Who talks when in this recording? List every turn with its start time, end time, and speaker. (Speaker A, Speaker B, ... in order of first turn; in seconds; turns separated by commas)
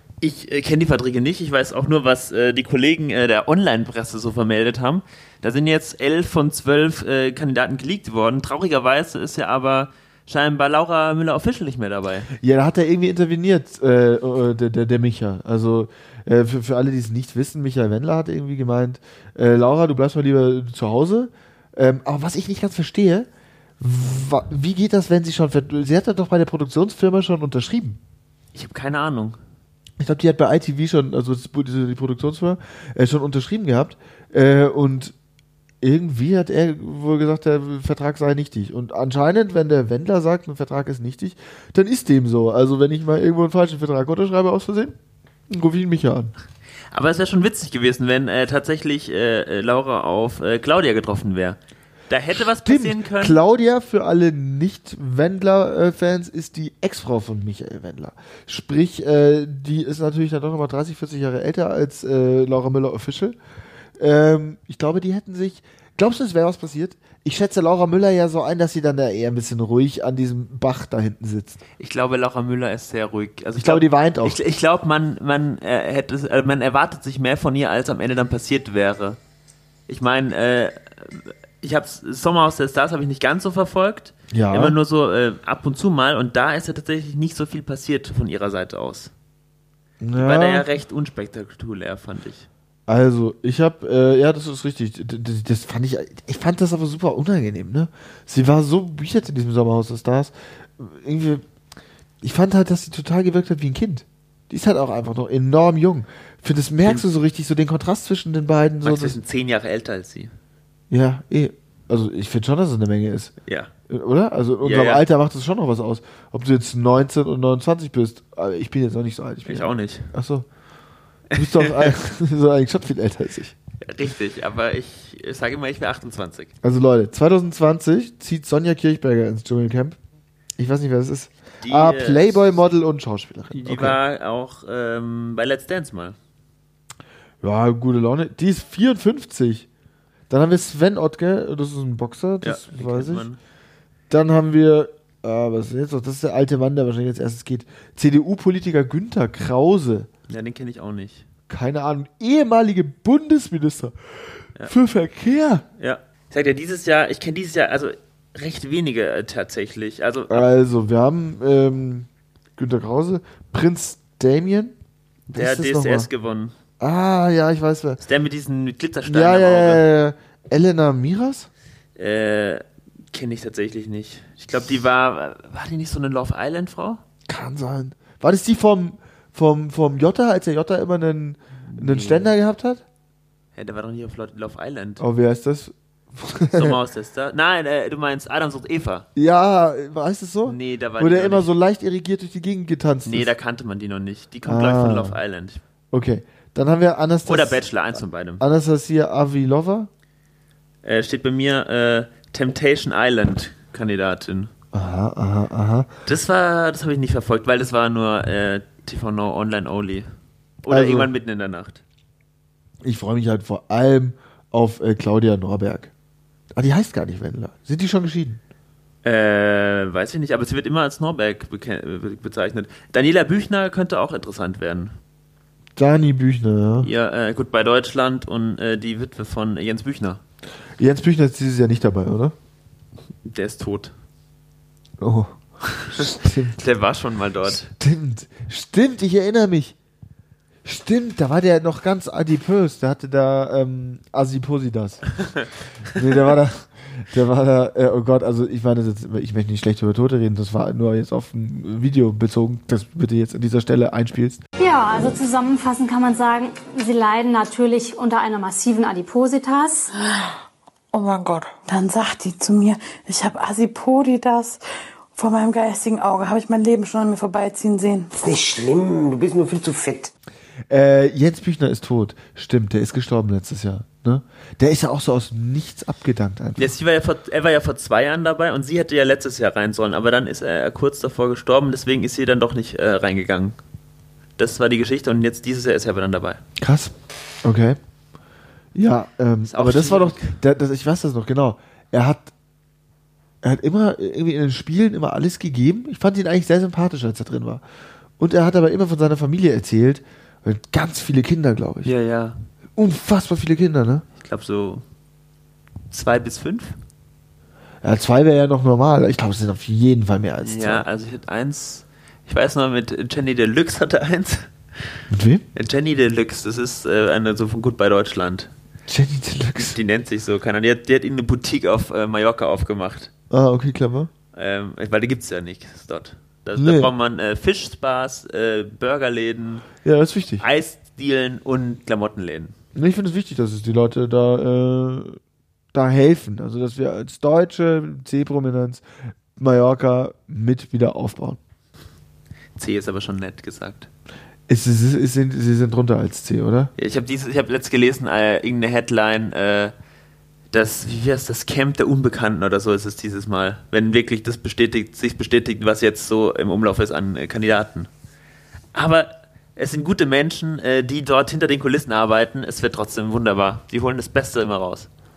Speaker A: 0.2-12.3, Speaker B: 12.4-23.3, Speaker B: 23.8-28.0, Speaker A: 28.5-29.4, Speaker B: 30.0-35.1, Speaker B: 35.8-45.0, Speaker B: 45.5-46.3, Speaker A: 46.9-51.6, Speaker A: 52.1-53.4, Speaker B: 52.4-63.4, Speaker B: 64.0-71.6, Speaker A: 71.8-79.2, Speaker B: 73.6-74.4, Speaker A: 79.9-89.1, Speaker B: 84.3-84.8, Speaker B: 90.0-90.7, Speaker A: 90.2-92.5, Speaker B: 92.9-101.4, Speaker B: 102.2-109.2, Speaker A: 108.8-110.3, Speaker B: 110.9-113.3, Speaker A: 113.5-113.7, Speaker B: 113.9-120.5, Speaker A: 114.6-115.0, Speaker A: 119.5-120.1, Speaker A: 121.3-121.9, Speaker B: 121.3-123.5, Speaker A: 123.8-126.5, Speaker B: 126.6-130.0, Speaker B: 130.6-134.0, Speaker A: 131.6-132.6, Speaker A: 133.5-136.2, Speaker B: 137.4-139.7, Speaker B: 140.3-143.3, Speaker A: 142.4-143.4, Speaker B: 144.1-150.1, Speaker A: 150.3-151.2, Speaker B: 151.5-153.9, Speaker B: 154.6-155.7, Speaker A: 155.8-160.5, Speaker B: 160.3-164.8, Speaker A: 165.3-166.5, Speaker B: 165.3-166.1, Speaker B: 166.8-168.0, Speaker A: 168.0-169.8, Speaker B: 169.1-171.5, Speaker A: 172.0-177.0, Speaker B: 177.3-182.8, Speaker A: 181.7-182.3, Speaker A: 183.6-185.0, Speaker B: 185.0-186.8, Speaker A: 186.5-189.1, Speaker B: 189.2-193.3, Speaker A: 190.4-191.5, Speaker A: 193.1-195.6, Speaker B: 194.4-195.2, Speaker B: 195.9-197.6, Speaker A: 197.3-198.4, Speaker B: 198.4-199.9, Speaker A: 200.8-204.5, Speaker B: 204.7-205.9, Speaker A: 206.1-210.1, Speaker A: 210.6-211.8, Speaker B: 210.7-211.1, Speaker B: 212.8-215.9, Speaker B: 216.5-218.4, Speaker A: 219.0-224.9, Speaker B: 225.8-226.9, Speaker A: 226.8-230.2, Speaker B: 230.8-232.3, Speaker A: 233.2-233.9, Speaker B: 235.0-236.6, Speaker A: 235.9-237.7, Speaker B: 237.7-239.8, Speaker B: 240.7-245.1, Speaker B: 245.9-254.4, Speaker A: 246.1-246.4, Speaker C: 254.6-259.9, Speaker D: 259.9-260.4, Speaker D: 260.9-264.6, Speaker D: 265.1-268.1, Speaker E: 268.1-270.1, Speaker B: 270.7-276.7, Speaker A: 276.6-283.6, Speaker A: 284.4-286.4, Speaker B: 286.6-286.9, Speaker B: 287.4-287.8, Speaker B: 288.8-292.3, Speaker A: 289.5-290.4, Speaker B: 293.4-297.6, Speaker B: 298.2-301.9, Speaker A: 301.9-302.4, Speaker B: 302.8-304.1, Speaker A: 304.2-304.8, Speaker A: 305.9-306.8, Speaker B: 307.8-310.9, Speaker A: 310.4-314.5, Speaker B: 315.1-315.4, Speaker A: 315.5-318.5, Speaker B: 318.9-319.8, Speaker A: 319.6-323.1, Speaker B: 323.3-324.1, Speaker A: 324.3-329.7, Speaker B: 326.6-326.9, Speaker B: 329.8-330.4, Speaker A: 330.4-332.6, Speaker B: 332.8-335.2, Speaker B: 335.7-338.8, Speaker B: 339.4-341.4, Speaker A: 342.6-343.9, Speaker B: 344.5-346.7, Speaker A: 346.8-349.7, Speaker A: 350.5-357.9, Speaker A: 358.7-364.9